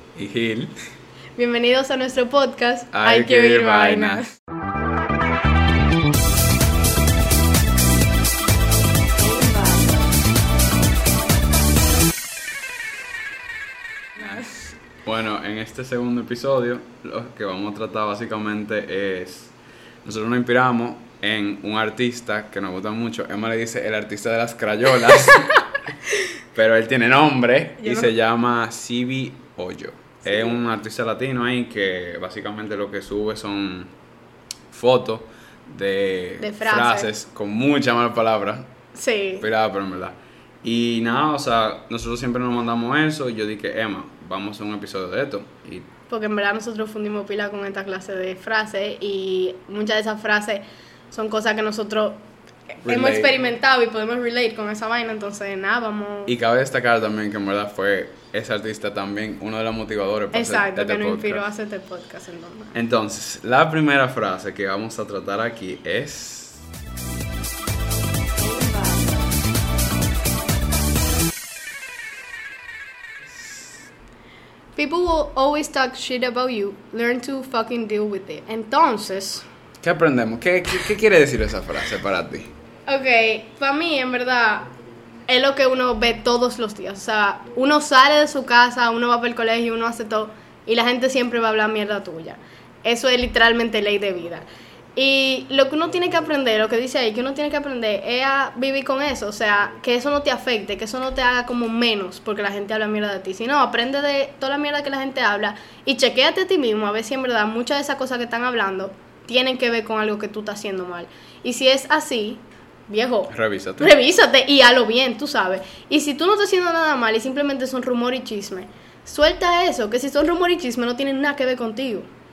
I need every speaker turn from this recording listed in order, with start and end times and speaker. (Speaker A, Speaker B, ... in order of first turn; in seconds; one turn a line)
Speaker A: 0.1-0.7
Speaker B: 1.4-4.3
Speaker A: 2.9-4.2
Speaker B: 9.3-9.6
Speaker A: 14.2-25.5
Speaker B: 14.2-14.5
Speaker B: 25.1-25.5
Speaker A: 26.5-33.9
Speaker B: 27.8-28.1
Speaker B: 30.2-30.6
Speaker A: 34.7-38.7
Speaker B: 36.4-37.1
Speaker B: 38.9-39.5
Speaker A: 39.4-45.9
Speaker B: 46.1-56.3
Speaker A: 52.9-53.4
Speaker A: 56.3-61.5
Speaker B: 60.3-62.8
Speaker A: 62.7-66.6
Speaker A: 73.3-73.7
Speaker B: 74.8-79.5
Speaker A: 79.8-82.5
Speaker B: 82.9-84.7
Speaker B: 85.3-94.4
Speaker B: 95.0-122.1
Speaker A: 113.3-114.0